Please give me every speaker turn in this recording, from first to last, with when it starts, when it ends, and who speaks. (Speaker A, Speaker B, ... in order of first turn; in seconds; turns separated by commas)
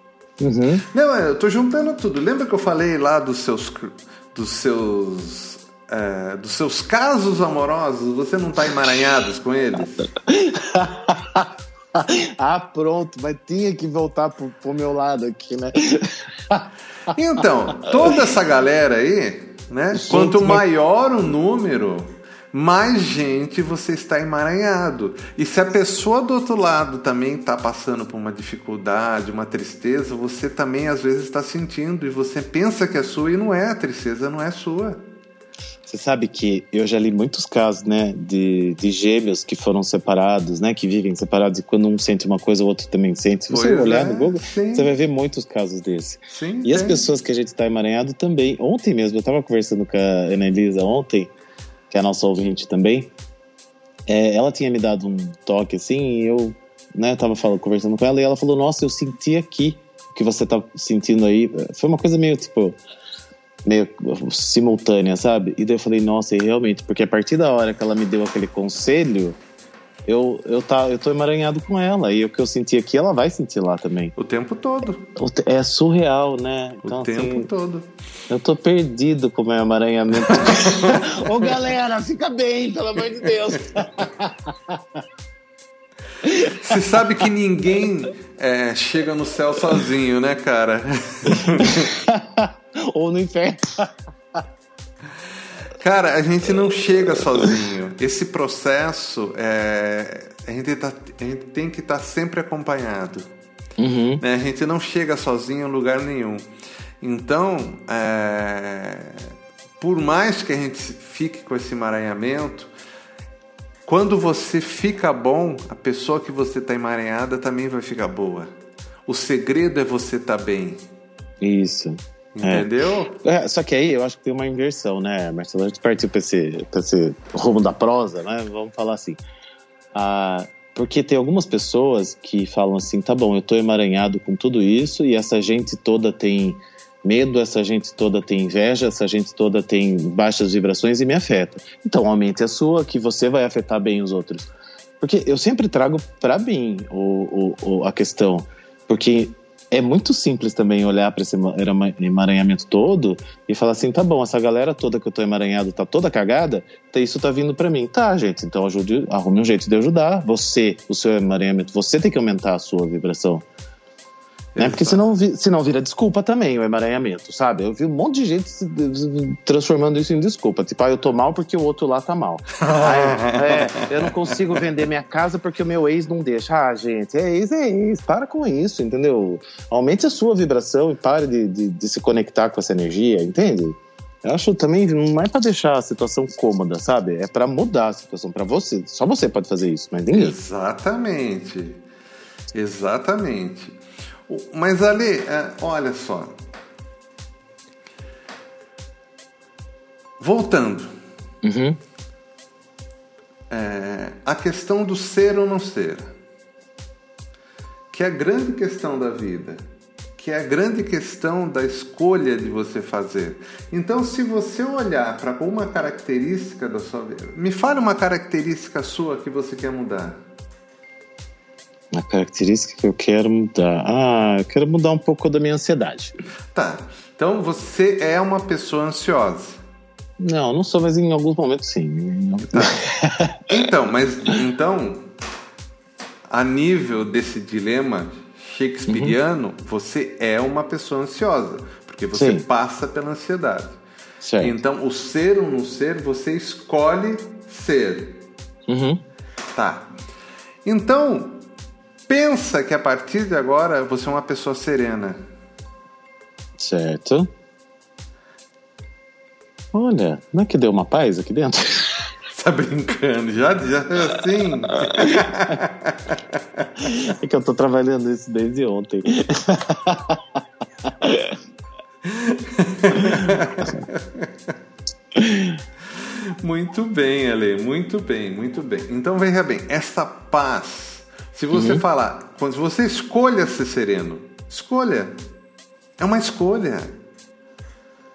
Speaker A: 0.4-0.8, Speaker B: 0.9-10.1, Speaker A: 10.1-16.7, Speaker B: 17.1-35.0, Speaker A: 17.9-18.2, Speaker A: 19.9-20.6, Speaker A: 35.9-51.3, Speaker B: 43.5-44.9, Speaker B: 46.3-47.0, Speaker A: 51.9-53.1, Speaker A: 54.1-62.8, Speaker A: 63.6-69.4, Speaker A: 70.1-74.1, Speaker B: 74.2-75.1, Speaker A: 75.2-77.5, Speaker B: 76.8-77.9, Speaker A: 78.3-85.0, Speaker B: 80.2-81.5, Speaker A: 86.2-86.8, Speaker B: 86.5-91.9, Speaker A: 91.3-94.4, Speaker B: 95.8-103.3, Speaker A: 103.8-104.2, Speaker B: 104.2-106.4, Speaker B: 107.0-109.3, Speaker B: 109.8-112.7, Speaker B: 113.9-118.5, Speaker B: 119.1-120.8, Speaker A: 121.4-122.7, Speaker B: 122.3-123.2, Speaker A: 123.2-129.2, Speaker A: 129.9-163.4, Speaker B: 164.5-165.0, Speaker A: 164.6-190.4, Speaker B: 172.6-174.3, Speaker B: 190.1-191.8, Speaker B: 192.5-196.3, Speaker B: 200.2-200.9, Speaker A: 201.4-201.8, Speaker B: 203.5-206.1, Speaker B: 207.9-209.6, Speaker B: 210.2-220.2, Speaker A: 221.9-226.1, Speaker B: 226.5-229.6, Speaker A: 230.2-233.4, Speaker B: 232.5-232.8, Speaker B: 233.5-235.0, Speaker B: 236.3-243.8, Speaker A: 238.9-239.2, Speaker A: 242.2-242.4, Speaker A: 244.2-244.6, Speaker B: 244.4-248.2, Speaker A: 248.7-249.0, Speaker B: 249.5-249.9, Speaker B: 250.7-251.4, Speaker B: 252.1-255.2, Speaker A: 256.6-257.3, Speaker A: 259.7-262.1, Speaker B: 262.3-266.7, Speaker A: 264.8-265.3, Speaker A: 266.8-271.3, Speaker B: 272.1-274.3, Speaker A: 273.0-273.8, Speaker A: 275.1-275.6, Speaker B: 276.0-285.1, Speaker A: 281.5-281.8, Speaker B: 286.0-286.9